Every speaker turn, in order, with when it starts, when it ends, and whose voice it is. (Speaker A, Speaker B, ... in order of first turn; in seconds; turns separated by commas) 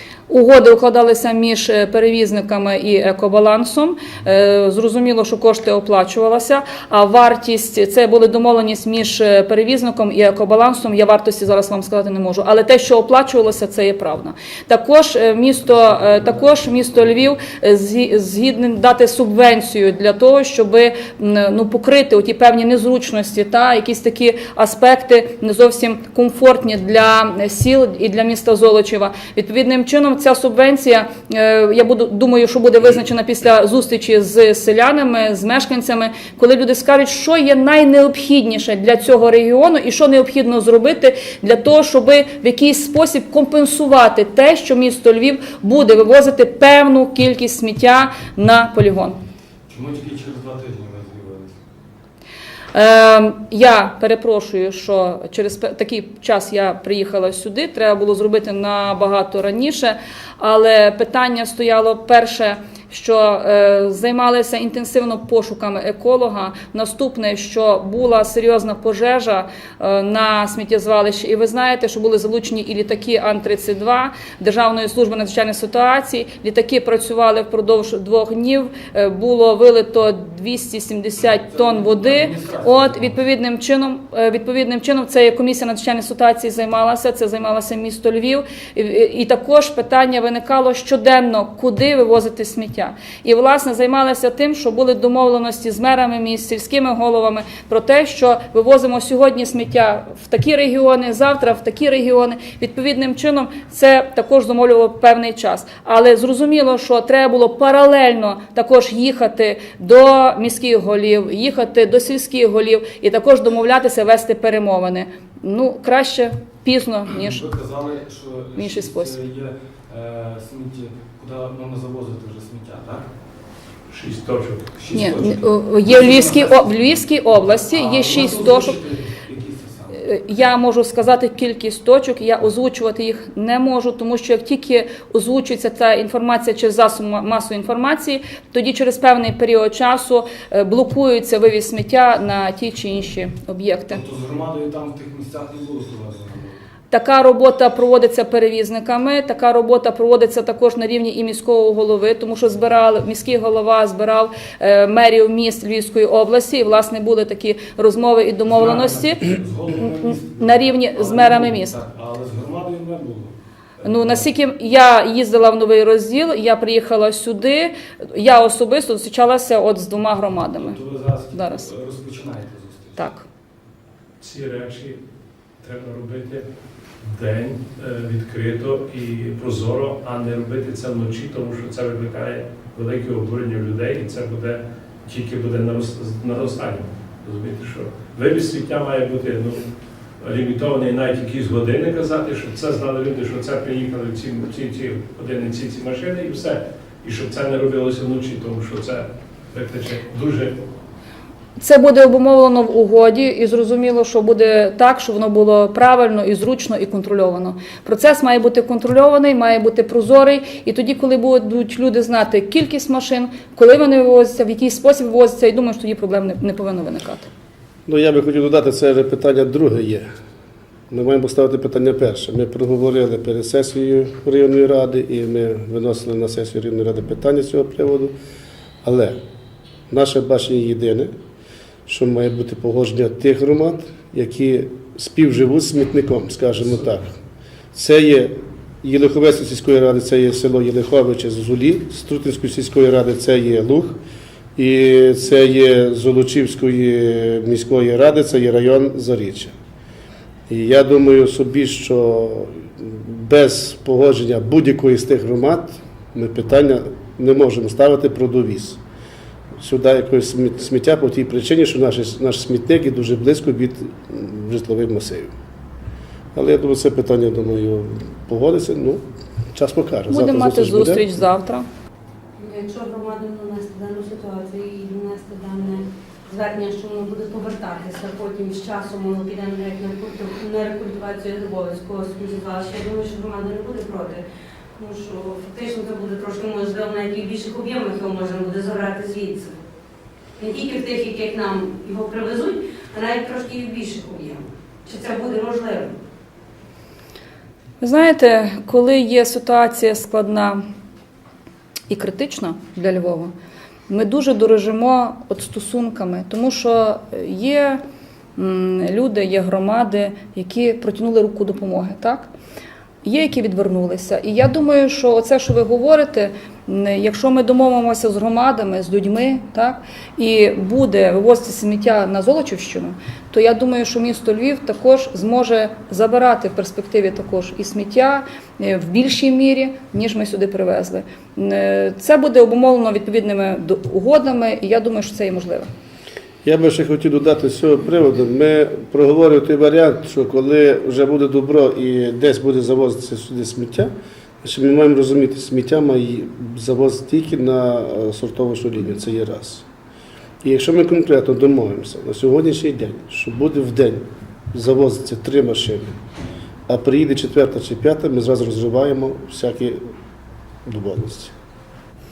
Speaker A: 0.3-49.2, Speaker B: 49.7-51.5, Speaker A: 52.7-117.4, Speaker B: 81.3-83.2, Speaker B: 117.2-123.1, Speaker A: 118.6-119.2, Speaker C: 123.9-124.7, Speaker B: 124.8-126.7, Speaker A: 124.9-128.8, Speaker B: 127.7-130.0, Speaker A: 130.0-144.0, Speaker B: 143.9-146.6, Speaker A: 146.9-161.8, Speaker B: 158.5-164.3, Speaker A: 163.8-170.8, Speaker B: 170.6-173.1, Speaker A: 171.3-171.7, Speaker A: 173.0-173.3, Speaker C: 174.2-175.0, Speaker C: 175.6-176.4, Speaker C: 177.0-189.6, Speaker C: 190.2-200.6, Speaker A: 201.6-217.3, Speaker D: 217.9-220.1, Speaker D: 220.9-228.1, Speaker D: 228.8-229.2, Speaker D: 229.9-231.1, Speaker D: 231.9-237.1, Speaker D: 237.7-244.0, Speaker D: 244.6-249.5, Speaker D: 250.5-258.8, Speaker D: 259.6-265.3, Speaker D: 266.3-269.0, Speaker D: 269.6-271.1, Speaker A: 270.1-271.7, Speaker E: 272.4-284.2, Speaker E: 284.8-289.6, Speaker E: 290.4-296.0, Speaker A: 297.8-300.6, Speaker A: 301.9-303.3, Speaker A: 303.9-307.8, Speaker A: 308.4-312.3, Speaker A: 313.0-335.7, Speaker D: 336.4-343.9, Speaker D: 344.4-349.6, Speaker D: 350.4-355.9, Speaker D: 356.7-359.8, Speaker D: 360.7-361.3